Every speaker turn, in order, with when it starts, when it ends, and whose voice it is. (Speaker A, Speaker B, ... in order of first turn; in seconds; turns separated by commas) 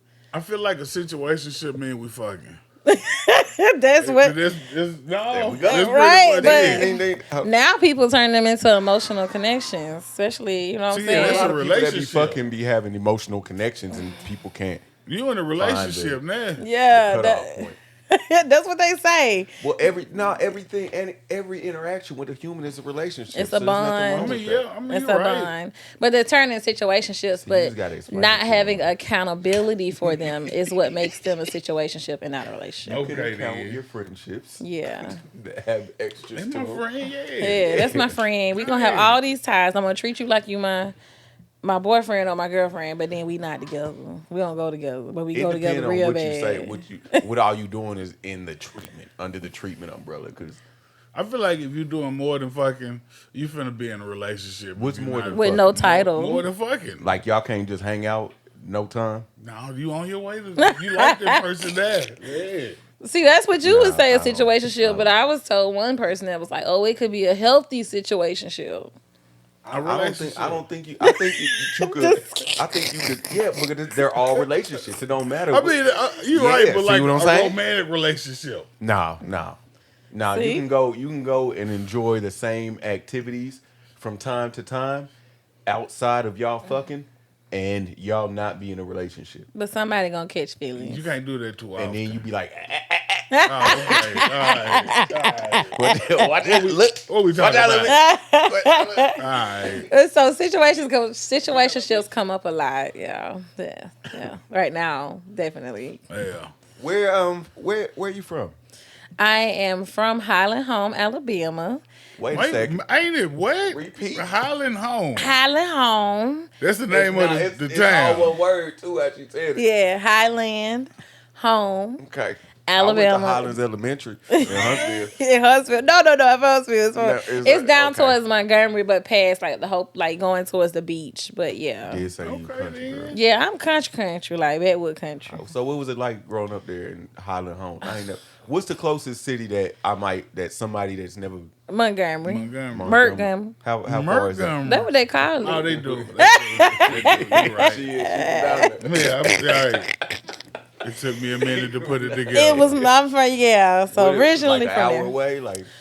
Speaker A: 0.3-2.6, Speaker B: 2.9-4.4, Speaker A: 4.0-6.9, Speaker C: 5.3-7.5, Speaker B: 5.6-11.6, Speaker A: 10.9-12.4, Speaker C: 11.1-14.8, Speaker A: 15.1-16.6, Speaker C: 15.6-16.2, Speaker B: 16.6-19.5, Speaker C: 16.9-17.8, Speaker C: 19.6-24.6, Speaker B: 23.3-24.4, Speaker A: 24.1-25.5, Speaker B: 24.9-33.0, Speaker C: 27.3-28.9, Speaker C: 30.9-31.3, Speaker A: 32.9-33.8, Speaker C: 33.0-36.8, Speaker B: 34.6-35.2, Speaker A: 36.3-37.9, Speaker C: 37.4-38.2, Speaker B: 37.4-41.0, Speaker A: 38.5-39.2, Speaker B: 41.6-47.2, Speaker C: 45.3-50.6, Speaker A: 51.1-57.2, Speaker C: 54.7-55.7, Speaker B: 55.3-56.4, Speaker C: 57.0-59.2, Speaker A: 59.4-62.8, Speaker B: 60.6-61.4, Speaker B: 63.0-68.9, Speaker C: 63.6-65.1, Speaker C: 69.6-75.8, Speaker A: 69.7-70.7, Speaker B: 71.0-73.1, Speaker A: 75.5-78.7, Speaker C: 76.3-77.6, Speaker C: 78.8-79.6, Speaker C: 80.1-85.1, Speaker B: 80.3-80.7, Speaker C: 85.7-89.5, Speaker B: 89.5-91.0, Speaker A: 90.8-92.2, Speaker C: 91.8-94.3, Speaker B: 93.3-96.2, Speaker A: 93.5-95.8, Speaker C: 95.7-99.1, Speaker A: 96.3-98.0, Speaker B: 97.8-106.0, Speaker A: 99.2-99.9, Speaker A: 106.1-106.5, Speaker C: 106.8-108.5, Speaker B: 109.2-111.8, Speaker C: 112.2-112.8, Speaker A: 112.3-115.4, Speaker C: 113.6-114.3, Speaker B: 115.2-116.5, Speaker A: 116.6-118.4, Speaker C: 116.9-119.6, Speaker B: 119.5-122.0, Speaker C: 122.0-125.1, Speaker B: 122.7-123.6, Speaker B: 124.3-132.1, Speaker A: 124.5-124.8, Speaker C: 126.9-128.2, Speaker C: 131.8-133.2, Speaker A: 132.2-133.2, Speaker B: 133.1-135.4, Speaker C: 135.3-141.5, Speaker B: 141.7-143.6, Speaker A: 142.2-142.9, Speaker C: 142.7-144.6, Speaker A: 143.8-147.9, Speaker B: 144.6-148.7, Speaker C: 145.5-149.9, Speaker A: 148.8-149.9, Speaker A: 150.8-152.8, Speaker C: 151.3-152.9, Speaker B: 152.3-155.1, Speaker C: 153.9-155.7